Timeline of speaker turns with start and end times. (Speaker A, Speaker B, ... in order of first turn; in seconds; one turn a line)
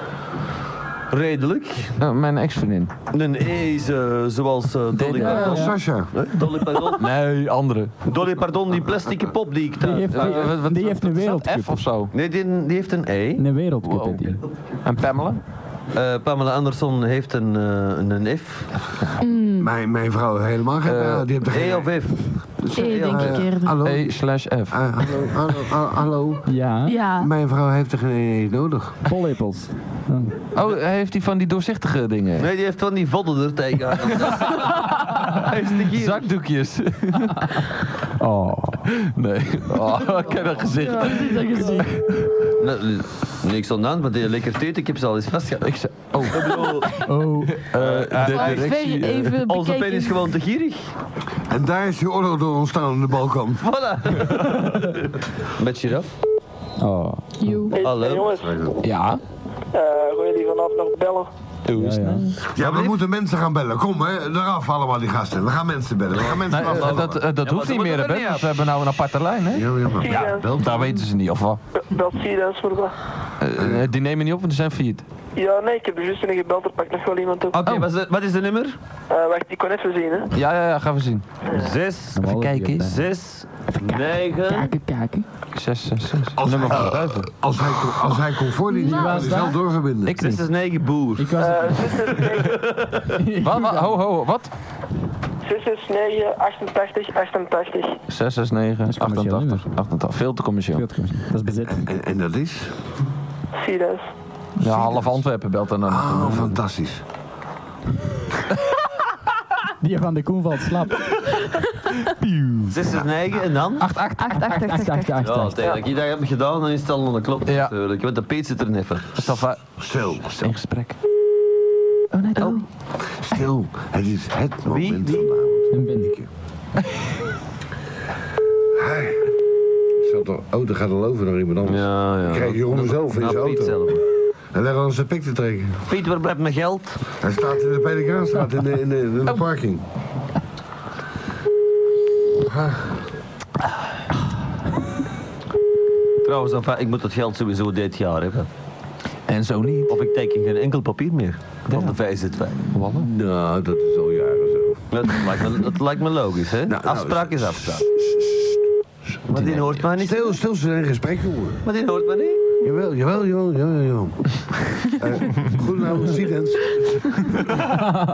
Speaker A: 1.1-1.9
Speaker B: 2.0-2.9
Speaker A: 3.1-7.0
Speaker B: 4.9-5.6
Speaker C: 5.1-5.8
Speaker D: 5.4-6.1
Speaker B: 6.9-7.9
Speaker A: 8.1-10.5
Speaker C: 9.8-11.9
Speaker B: 10.1-12.1
Speaker A: 12.1-13.4
Speaker C: 13.4-14.4
Speaker B: 13.8-14.2
Speaker B: 14.8-15.4
Speaker A: 15.9-18.7
Speaker E: 19.2-19.7
Speaker D: 19.6-21.9
Speaker B: 20.9-21.3
Speaker A: 21.5-23.4
Speaker D: 22.6-26.4
Speaker E: 22.7-23.8
Speaker B: 23.8-24.8
Speaker C: 26.4-27.0
Speaker E: 26.8-27.3
Speaker D: 27.2-29.0
Speaker C: 29.1-30.4
Speaker B: 30.5-32.5
Speaker A: 32.4-36.3
Speaker B: 35.8-37.6
Speaker C: 38.2-38.8
Speaker B: 38.9-41.7
Speaker E: 40.8-41.8
Speaker C: 41.0-42.0
Speaker A: 42.6-47.0
Speaker B: 45.6-49.4
Speaker C: 47.0-47.6
Speaker A: 47.7-48.8
Speaker E: 48.2-50.2
Speaker A: 49.4-50.9
Speaker D: 51.5-53.6
Speaker A: 53.6-56.1
Speaker C: 56.8-57.7
Speaker E: 57.4-57.8
Speaker F: 57.7-58.6
Speaker A: 57.8-58.3
Speaker D: 58.4-58.7
Speaker B: 58.8-59.2
Speaker F: 59.7-61.3
Speaker B: 61.6-62.3
Speaker C: 61.7-62.3
Speaker D: 62.5-67.2
Speaker A: 62.6-63.0
Speaker A: 66.1-68.5
Speaker B: 66.5-69.7
Speaker D: 69.5-70.9
Speaker F: 70.0-70.5
Speaker B: 70.5-71.6
Speaker F: 71.8-72.9
Speaker B: 73.4-75.0
Speaker D: 73.6-73.8
Speaker F: 75.3-77.6
Speaker A: 77.5-78.8
Speaker F: 79.1-80.3
Speaker B: 80.3-81.2
Speaker A: 81.5-84.7
Speaker C: 82.1-83.0
Speaker B: 82.2-82.9
Speaker C: 83.8-85.2
Speaker B: 85.5-87.3
Speaker D: 86.4-90.2
Speaker A: 86.7-87.0
Speaker C: 88.7-89.6
Speaker E: 88.8-89.0
Speaker B: 90.1-90.4
Speaker A: 90.1-91.4
Speaker C: 91.2-92.1
Speaker F: 91.4-92.6
Speaker A: 92.3-93.1
Speaker C: 93.2-94.0
Speaker B: 93.4-94.5
Speaker F: 95.4-98.0
Speaker B: 98.1-100.9
Speaker C: 98.8-99.7
Speaker C: 100.7-101.8
Speaker D: 101.7-102.8
Speaker F: 103.5-104.0
Speaker B: 104.6-106.5
Speaker D: 104.6-105.2
Speaker D: 105.9-107.0
Speaker C: 109.8-111.2
Speaker C: 112.2-112.9
Speaker A: 112.7-113.9
Speaker C: 113.8-115.7
Speaker E: 114.2-115.3
Speaker A: 115.2-119.2
Speaker B: 117.5-117.7
Speaker B: 119.2-119.6
Speaker D: 119.8-120.5
Speaker B: 120.3-121.0
Speaker E: 122.3-122.6
Speaker D: 123.0-126.3
Speaker A: 124.7-125.3
Speaker C: 125.7-126.1
Speaker D: 128.7-129.3
Speaker D: 130.0-133.8
Speaker A: 131.6-134.0
Speaker D: 134.5-135.8
Speaker A: 135.9-137.1
Speaker D: 137.2-139.8
Speaker D: 142.4-143.0
Speaker A: 146.2-148.5
Speaker B: 149.3-149.9
Speaker A: 149.9-152.7
Speaker B: 151.7-151.9
Speaker B: 152.7-153.1
Speaker D: 152.9-154.8
Speaker A: 154.9-157.8
Speaker D: 156.7-158.3
Speaker A: 159.3-160.4
Speaker B: 159.3-159.6
Speaker D: 159.9-161.6
Speaker A: 161.6-162.6
Speaker D: 162.6-166.8